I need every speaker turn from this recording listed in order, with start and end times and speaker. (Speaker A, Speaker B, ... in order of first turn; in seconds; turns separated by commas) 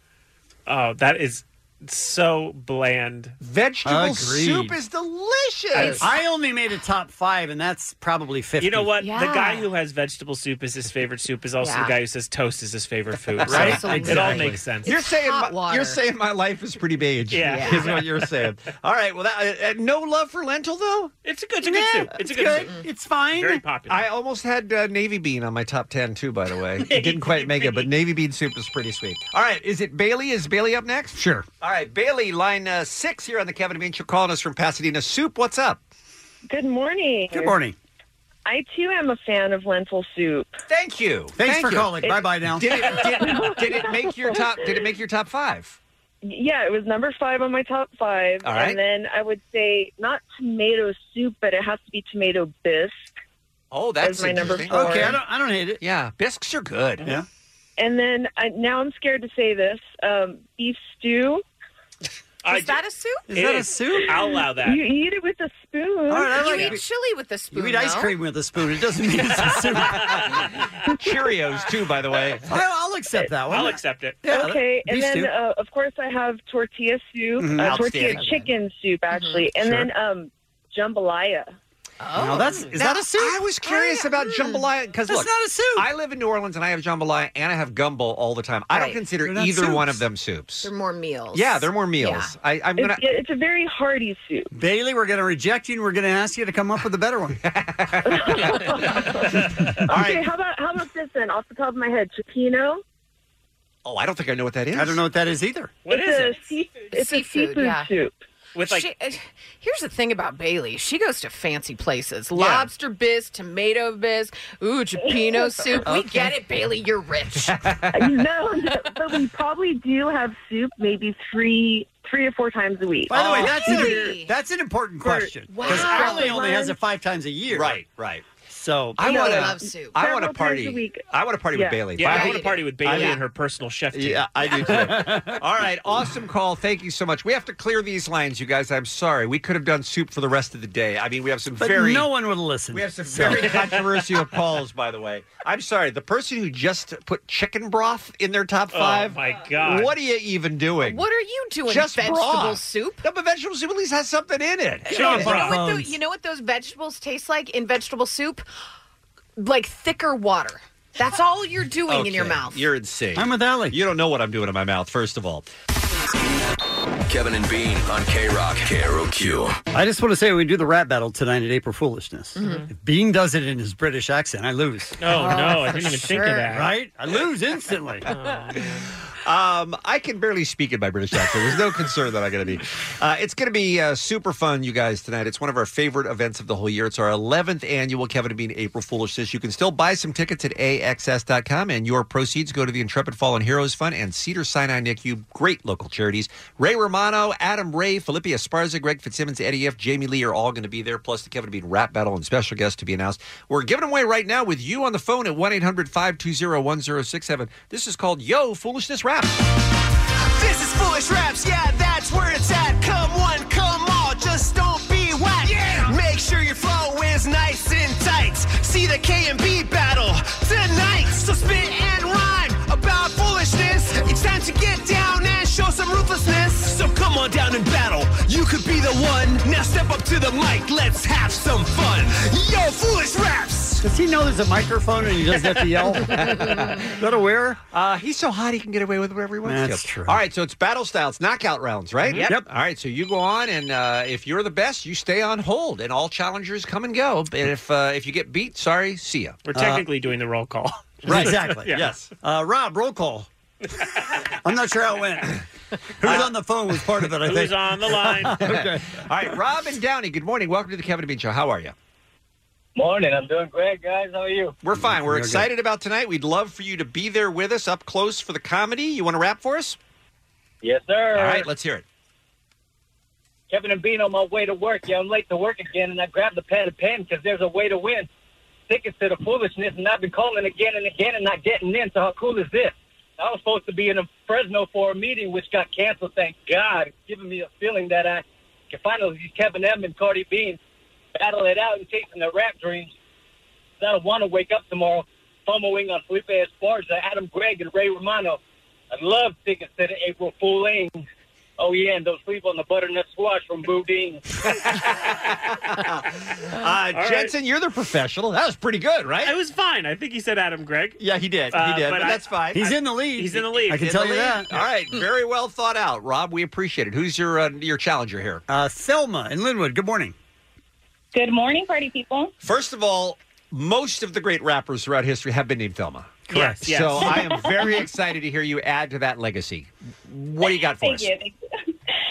Speaker A: 0.7-3.4, Speaker B: 3.4-6.1, Speaker C: 3.9-4.8, Speaker D: 5.8-6.0, Speaker C: 5.9-8.9, Speaker A: 8.6-14.9, Speaker D: 9.0-9.7, Speaker D: 11.6-11.9, Speaker C: 13.4-14.6, Speaker D: 13.5-16.0, Speaker B: 14.9-21.1, Speaker A: 17.3-18.5, Speaker D: 17.4-17.9, Speaker A: 21.2-22.7, Speaker C: 21.6-23.6, Speaker A: 23.4-24.1, Speaker B: 23.9-35.8, Speaker A: 26.8-27.9, Speaker C: 31.1-31.5, Speaker E: 36.5-37.5, Speaker C: 37.3-37.8, Speaker E: 38.5-40.5, Speaker B: 40.7-42.0, Speaker C: 41.4-42.9, Speaker E: 42.0-44.5, Speaker B: 42.6-45.8, Speaker E: 46.2-53.1, Speaker B: 48.4-48.8, Speaker B: 53.7-55.2, Speaker E: 54.0-55.1, Speaker C: 54.7-55.8, Speaker B: 55.8-57.1, Speaker E: 57.8-61.4, Speaker A: 62.4-62.8, Speaker D: 62.5-63.3, Speaker C: 63.3-64.2, Speaker A: 63.3-64.9, Speaker E: 64.6-66.6, Speaker C: 66.1-66.8, Speaker D: 66.3-68.1, Speaker C: 67.5-70.3, Speaker A: 69.7-70.4, Speaker B: 71.0-72.5, Speaker C: 72.5-75.3, Speaker A: 73.5-74.2, Speaker E: 74.3-81.5, Speaker C: 77.4-78.3, Speaker B: 77.6-78.4, Speaker D: 79.1-79.5, Speaker D: 82.0-82.7, Speaker C: 82.2-83.4, Speaker B: 82.8-90.7, Speaker D: 83.6-84.7, Speaker C: 85.1-85.9, Speaker D: 88.7-89.0, Speaker C: 89.2-90.0, Speaker D: 90.6-92.3, Speaker B: 91.3-93.0, Speaker E: 92.8-94.5, Speaker C: 94.5-97.4, Speaker B: 97.5-98.4, Speaker E: 98.1-99.2, Speaker B: 99.9-100.2, Speaker E: 99.9-102.8, Speaker B: 103.8-105.0, Speaker C: 104.7-105.7, Speaker A: 105.9-106.8, Speaker E: 105.9-108.1, Speaker D: 106.9-107.9, Speaker A: 108.5-108.9, Speaker D: 108.6-117.6, Speaker A: 112.4-112.6, Speaker B: 117.5-118.3, Speaker E: 117.9-124.0, Speaker C: 123.1-127.8, Speaker D: 123.1-124.3, Speaker E: 125.0-126.8, Speaker D: 125.5-126.5, Speaker B: 127.5-128.3, Speaker C: 128.5-129.5, Speaker B: 129.0-133.2, Speaker E: 129.0-129.4, Speaker D: 129.1-130.0, Speaker E: 130.0-131.0, Speaker E: 131.5-131.8, Speaker A: 132.0-134.9, Speaker D: 132.0-133.2, Speaker B: 133.9-142.1, Speaker C: 134.7-135.4, Speaker C: 141.6-143.6, Speaker B: 142.7-151.1, Speaker A: 148.7-149.9, Speaker D: 150.8-153.0, Speaker B: 151.7-155.2, Speaker D: 154.9-158.4, Speaker A: 154.9-155.6, Speaker C: 154.9-156.0, Speaker D: 159.4-162.6, Speaker B: 161.9-165.5, Speaker C: 163.2-163.8, Speaker F: 167.1-169.6, Speaker C: 169.7-175.0, Speaker D: 172.4-172.7, Speaker A: 172.4-172.7, Speaker A: 175.0-176.7, Speaker D: 175.1-176.5, Speaker C: 176.5-178.1, Speaker A: 178.1-178.8, Speaker B: 179.2-209.3, Speaker G: 210.4-228.5, Speaker G: 229.4-233.8, Speaker C: 233.8-237.6, Speaker B: 236.1-236.9, Speaker B: 237.7-249.4, Speaker C: 239.4-240.2, Speaker A: 242.0-242.3, Speaker C: 242.2-242.5, Speaker A: 249.4-251.9, Speaker C: 249.6-249.9, Speaker C: 251.0-253.3, Speaker B: 251.1-251.4, Speaker C: 254.4-255.4, Speaker C: 256.0-259.0, Speaker B: 256.0-256.3, Speaker A: 257.2-258.5, Speaker B: 258.4-261.7, Speaker H: 262.8-264.6, Speaker B: 264.6-269.8, Speaker C: 264.8-265.5, Speaker H: 270.6-271.5, Speaker B: 271.1-271.8, Speaker H: 273.5-278.1, Speaker H: 278.7-290.6, Speaker H: 291.2-292.9, Speaker H: 293.8-298.4, Speaker H: 298.9-301.0, Speaker H: 301.6-304.2, Speaker B: 304.5-309.3, Speaker A: 306.9-307.3, Speaker A: 309.2-311.0, Speaker B: 311.0-312.8, Speaker A: 311.5-312.2, Speaker C: 312.5-314.5, Speaker A: 313.2-314.0, Speaker B: 313.6-318.4, Speaker C: 318.5-320.1, Speaker I: 321.1-322.3, Speaker B: 322.4-331.1, Speaker C: 326.3-326.6, Speaker A: 326.3-327.5, Speaker I: 330.4-331.4